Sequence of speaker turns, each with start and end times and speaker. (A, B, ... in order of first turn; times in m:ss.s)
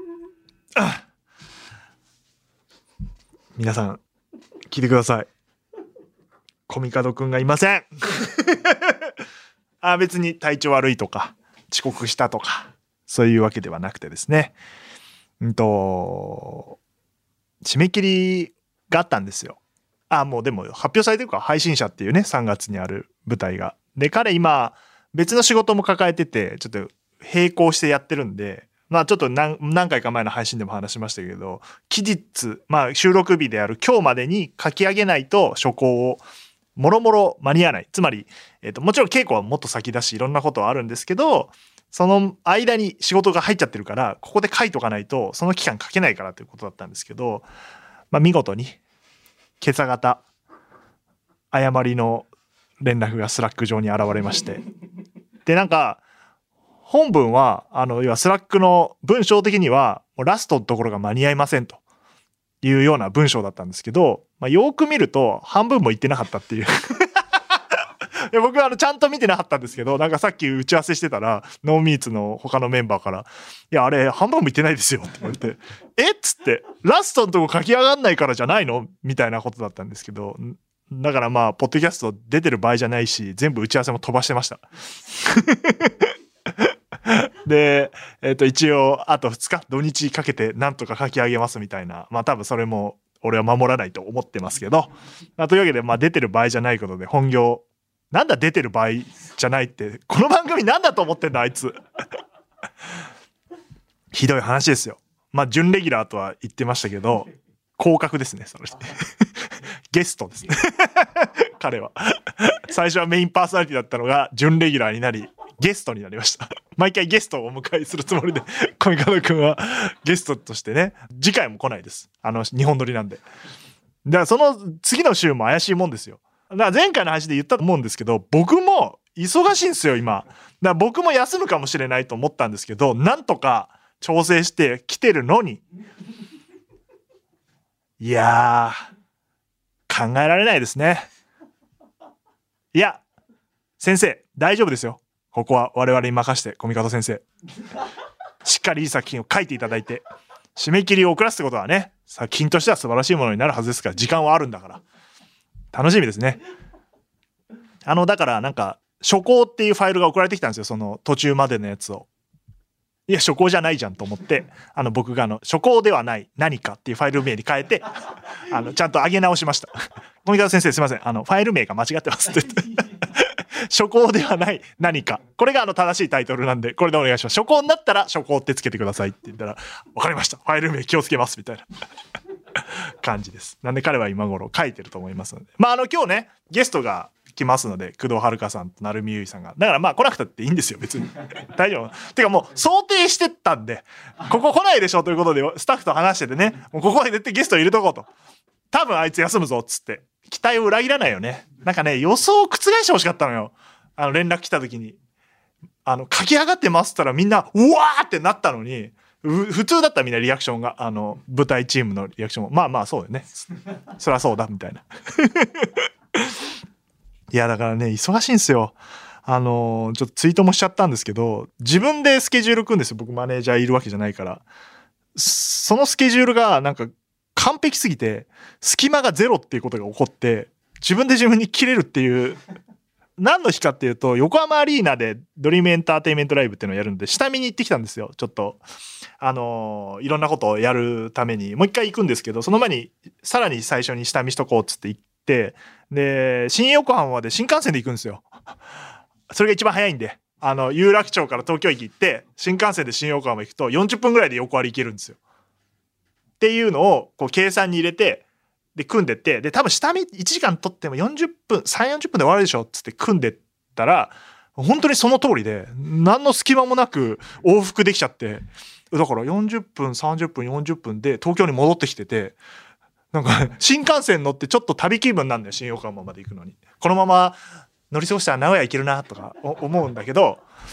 0:00.7-0:01.0 A
0:03.5-0:04.0 A
0:04.7-0:05.3 A
0:06.7-0:09.1 A
0:09.8-0:14.5 A
0:15.4-0:16.8 A
0:17.6-0:19.6 A
0:20.1-0:36.2 A
0:36.8-0:47.4 A
0:48.1-0:48.8 A
0:49.6-0:50.2 A
0:51.5-0:52.3 A
0:52.8-0:54.6 A
0:55.5-0:56.0 A
0:56.8-1:01.8 A
1:02.6-1:41.8 A
1:44.1-2:03.2 A
2:04.0-2:15.6 A
2:18.0-2:18.8 A
2:19.9-2:21.1 A
2:22.7-2:23.0 A
2:23.8-2:27.2 A
2:28.4-2:30.0 A
2:30.6-2:34.8 A
2:35.7-2:36.4 A
2:37.8-2:42.1 A
2:43.1-2:47.9 A
2:48.5-2:49.7 A
2:50.2-3:01.7 A
3:02.6-3:18.1 A
3:18.7-3:25.0 A
3:25.8-3:33.4 A
3:34.0-3:36.4 A
3:37.3-3:44.4 A
3:45.1-3:52.4 A
3:53.2-3:58.6 A
3:59.2-4:08.5 A
4:09.3-4:15.2 A
4:16.4-4:18.2 A
4:18.8-4:32.4 A
4:33.1-4:37.4 A
4:37.9-4:40.4 A